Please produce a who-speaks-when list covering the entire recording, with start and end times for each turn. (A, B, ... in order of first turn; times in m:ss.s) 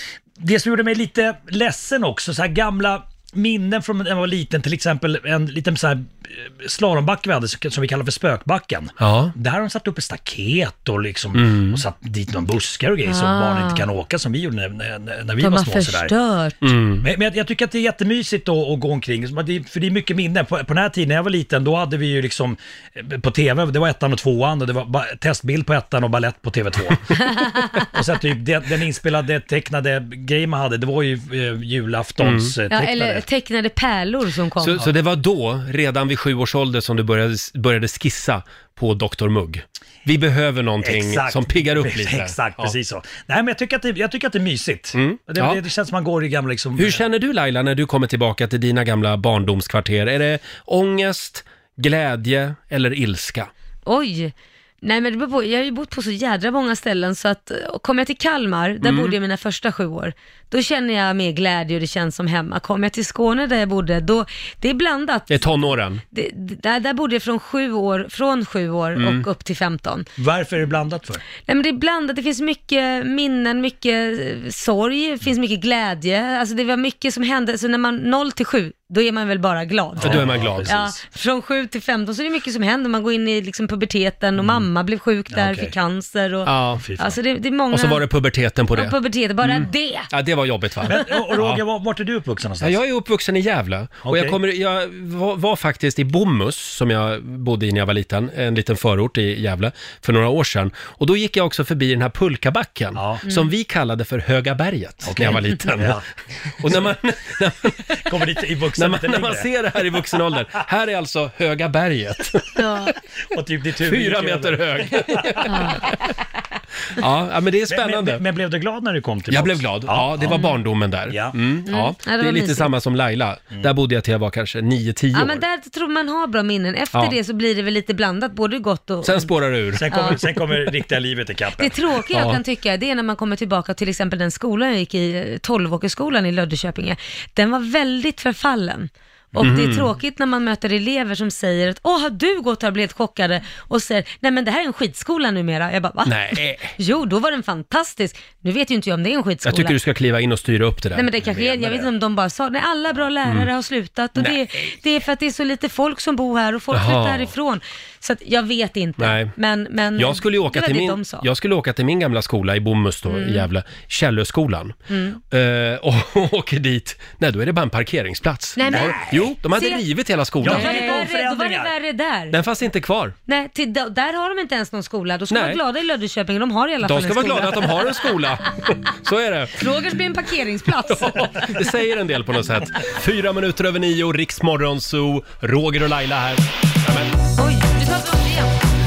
0:00.4-0:16.1 A
0:09.0-0:09.3 B
0:11.3-0:11.8 B
0:13.0-0:13.8 C
0:15.4-0:16.6 C
0:16.6-0:17.1 B
0:17.0-0:27.1 A
0:27.4-0:27.8 C
0:27.9-0:33.2 A
0:32.2-0:32.5 B
0:32.7-0:34.8 C
0:34.6-0:42.7 B
0:40.8-0:47.0 A
0:44.9-0:45.6 B
0:46.8-0:53.5 B
0:53.8-1:10.1 C
0:58.8-0:59.1 B
1:05.3-1:06.0 B
1:09.0-1:09.2 B
1:10.2-1:11.2 A
1:11.5-1:28.0 C
1:20.0-1:20.9 A
1:20.0-1:20.9 B
1:25.3-1:25.7 A
1:26.4-1:26.8 B
1:26.8-1:27.2 A
1:27.7-1:31.6 B
1:28.7-1:30.1 C
1:30.9-1:32.8 A
1:32.6-1:46.0 B
1:34.0-1:34.4 A
1:42.9-1:43.2 A
1:45.0-1:46.0 A
1:46.6-1:48.0 B
1:47.9-1:49.5 A
1:48.7-1:52.6 B
1:52.6-1:52.9 C
1:53.3-1:55.5 A
1:53.8-1:56.0 B
1:56.9-1:58.2 B
1:57.7-2:00.5 A
1:59.3-2:05.4 B
2:01.1-2:01.4 A
2:01.7-2:02.7 C
2:05.1-2:09.3 C
2:09.0-2:09.8 B
2:09.7-2:11.8 A
2:09.9-2:10.4 C
2:11.6-2:29.7 C
2:12.1-2:12.4 B
2:19.4-2:19.9 B
2:26.0-2:26.8 B
2:29.4-2:31.1 B
2:30.9-2:41.2 C
2:31.2-2:31.9 A
2:34.2-2:34.7 B
2:36.7-2:37.3 B
2:39.0-2:39.3 B
2:40.0-2:44.8 B
2:43.1-2:43.4 C
2:44.9-2:45.2 C
2:45.3-2:51.0 B
2:48.6-2:49.8 C
2:48.7-2:49.3 A
2:50.4-2:51.7 A
2:50.4-2:52.4 C
2:52.3-2:53.1 B
2:53.3-2:58.3 C
2:55.3-2:55.6 B
2:56.8-2:59.6 B
2:59.6-3:01.6 C
3:00.9-3:07.1 B
3:07.4-3:08.6 C